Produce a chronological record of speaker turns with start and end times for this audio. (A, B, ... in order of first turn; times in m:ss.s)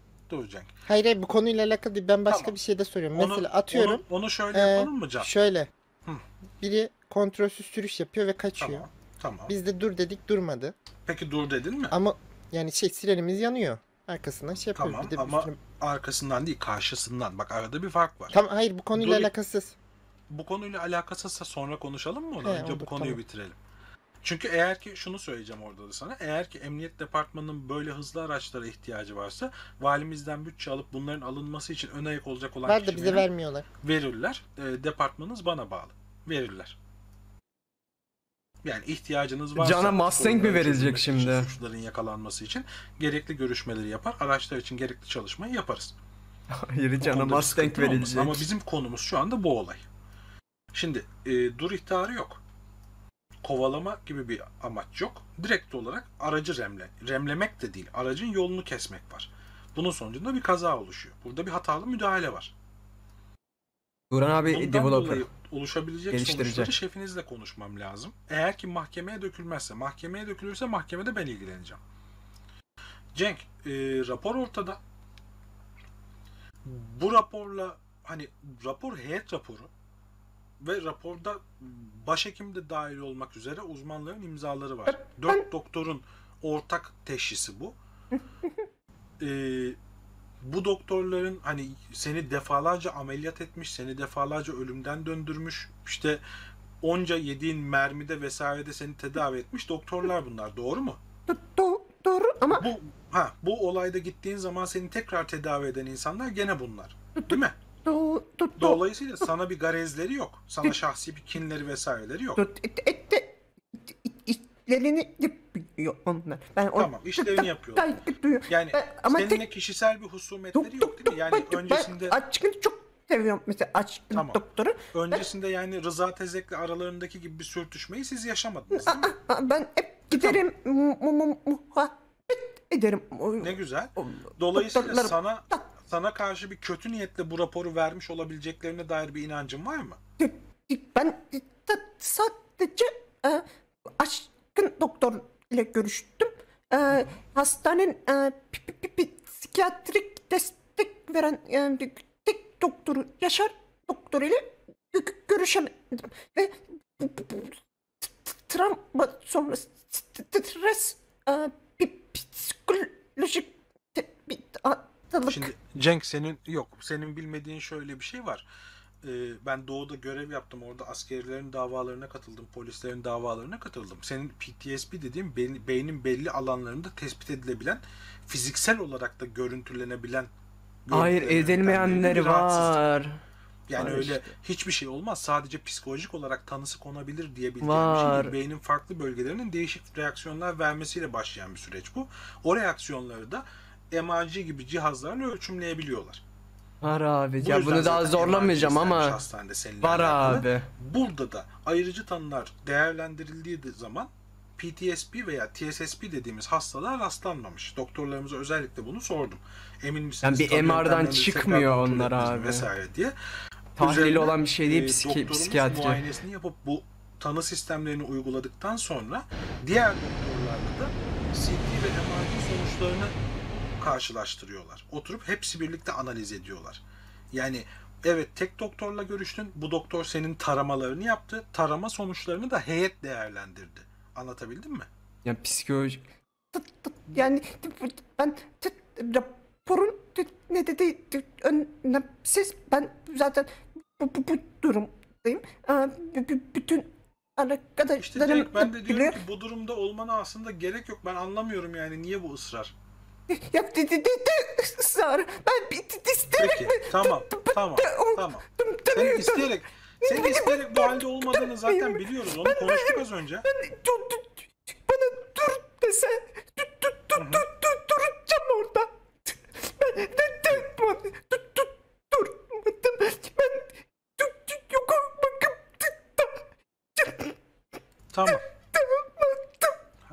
0:00.3-0:00.7 A
0:00.9-0:05.7 B
0:02.3-0:02.6 A
0:03.1-0:05.3 A
0:06.6-0:08.9 B
0:08.6-0:09.5 A
0:09.5-0:10.7 B
0:11.1-0:12.0 A
0:11.9-0:15.6 B
0:14.8-0:18.3 A
0:18.3-0:19.7 B
0:18.9-0:19.3 A
0:20.3-0:23.6 A
0:22.4-0:23.2 B
0:24.2-0:33.3 A
0:32.7-0:33.7 B
0:33.8-0:36.8 A
0:38.6-0:45.9 A
0:39.6-0:41.5 C
0:46.5-0:48.4 C
0:47.0-0:49.8 A
0:50.7-0:52.4 A
0:53.4-1:02.5 A
1:04.1-1:05.3 C
1:04.5-1:11.8 A
1:06.1-1:06.7 C
1:13.2-1:14.8 A
1:16.6-1:19.7 A
1:20.6-1:27.8 A
1:24.9-1:25.4 D
1:29.2-1:29.8 A
1:30.4-1:36.2 A
1:36.8-1:41.0 A
1:41.3-1:42.7 D
1:42.6-1:47.6 A
1:47.8-1:48.8 D
1:48.6-1:52.4 A
1:52.4-1:59.4 D
1:56.8-2:02.2 A
2:00.6-2:05.2 D
2:04.1-2:09.1 A
2:08.8-2:15.7 D
2:10.1-2:10.4 A
2:13.4-2:20.0 A
2:20.2-2:23.4 D
2:24.0-2:45.5 D
2:45.3-2:48.4 A
2:49.0-3:00.3 A
3:00.9-3:02.8 A
3:00.9-3:03.2 C
3:03.7-3:16.2 A
3:03.8-3:04.2 C
3:07.6-3:08.4 C
3:16.8-3:19.2 C
3:17.4-3:33.2 A
3:19.8-3:20.7 C
3:30.2-3:32.7 C
3:33.8-3:43.2 A
3:33.8-3:36.0 C
3:43.8-3:46.8 A
3:47.3-3:54.9 A
3:55.2-3:56.0 C
3:56.5-4:09.2 D
4:08.0-4:12.7 A
4:13.3-4:19.5 D
4:16.4-4:23.5 A
4:20.0-4:37.4 D
4:27.2-4:27.4 A
4:38.1-4:38.4 A
4:38.3-4:39.8 D